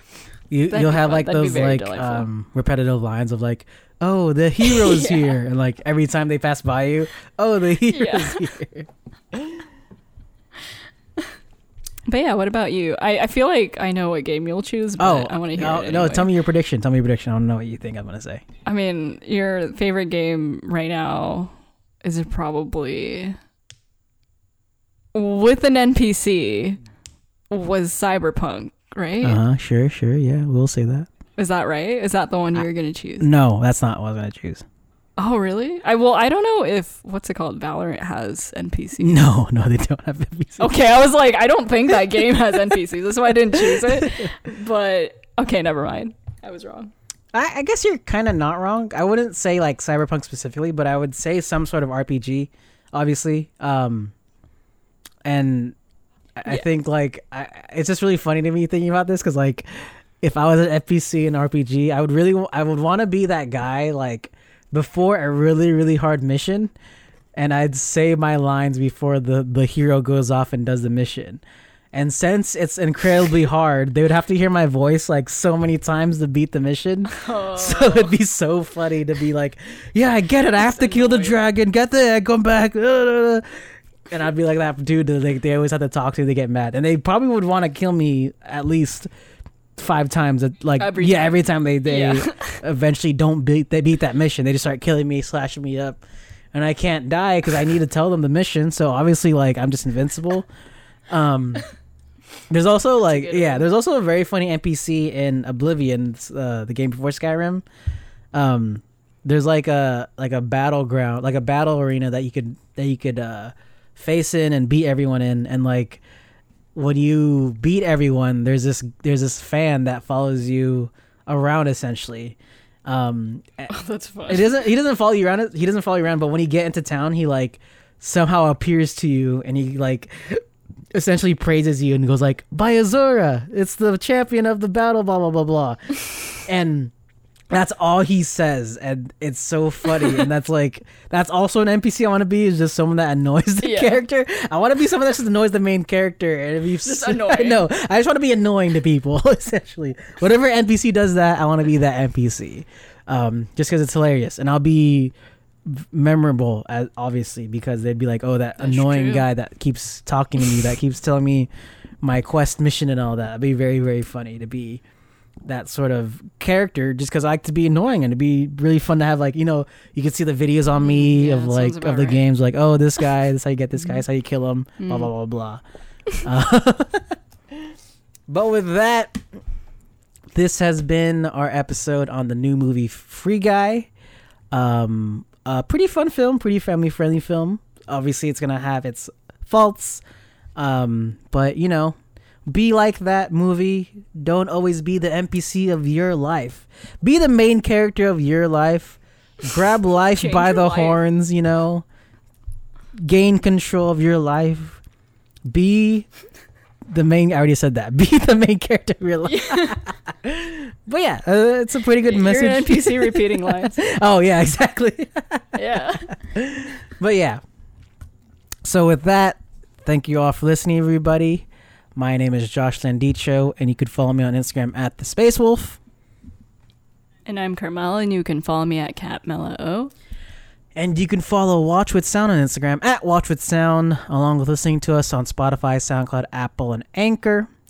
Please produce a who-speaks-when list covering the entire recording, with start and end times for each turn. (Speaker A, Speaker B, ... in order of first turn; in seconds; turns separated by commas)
Speaker A: 0.5-9.6, Speaker B: 0.7-2.3, Speaker B: 4.6-5.4, Speaker B: 7.9-8.5, Speaker B: 12.1-16.3, Speaker A: 15.0-18.4, Speaker B: 18.7-23.4, Speaker B: 25.1-26.8, Speaker B: 27.5-29.4, Speaker A: 29.2-31.1, Speaker B: 31.4-33.3, Speaker A: 33.2-34.6, Speaker B: 35.2-39.2, Speaker A: 39.0-40.8, Speaker B: 40.6-46.9, Speaker A: 43.5-44.3, Speaker A: 47.3-54.1, Speaker A: 55.2-55.8, Speaker A: 56.4-66.7, Speaker A: 67.4-71.4, Speaker A: 71.9-83.5, Speaker B: 77.1-78.1, Speaker B: 80.6-81.4, Speaker A: 84.1-89.1, Speaker A: 89.8-96.0, Speaker B: 90.8-92.6, Speaker A: 96.5-100.5, Speaker A: 101.1-101.7, Speaker A: 102.5-107.6, Speaker B: 103.1-103.7, Speaker A: 108.3-116.0, Speaker A: 116.8-123.7, Speaker B: 123.7-124.6, Speaker A: 124.3-136.9, Speaker A: 137.5-155.1, Speaker B: 143.6-144.0, Speaker B: 146.8-147.6, Speaker A: 155.7-161.5, Speaker B: 158.6-159.3, Speaker A: 162.0-164.8, Speaker A: 165.5-175.6, Speaker B: 170.8-172.2, Speaker B: 174.8-175.1, Speaker A: 176.2-177.7, Speaker A: 178.3-179.2, Speaker A: 180.3-183.9, Speaker A: 184.5-190.0, Speaker A: 190.6-192.0, Speaker A: 192.5-201.9, Speaker B: 200.1-201.0, Speaker A: 203.0-204.8, Speaker A: 205.5-206.1, Speaker A: 206.9-215.5, Speaker B: 209.3-209.8, Speaker B: 212.0-213.8, Speaker B: 215.6-216.2, Speaker A: 216.1-217.4, Speaker A: 218.6-225.8, Speaker B: 227.3-229.9, Speaker A: 230.8-237.5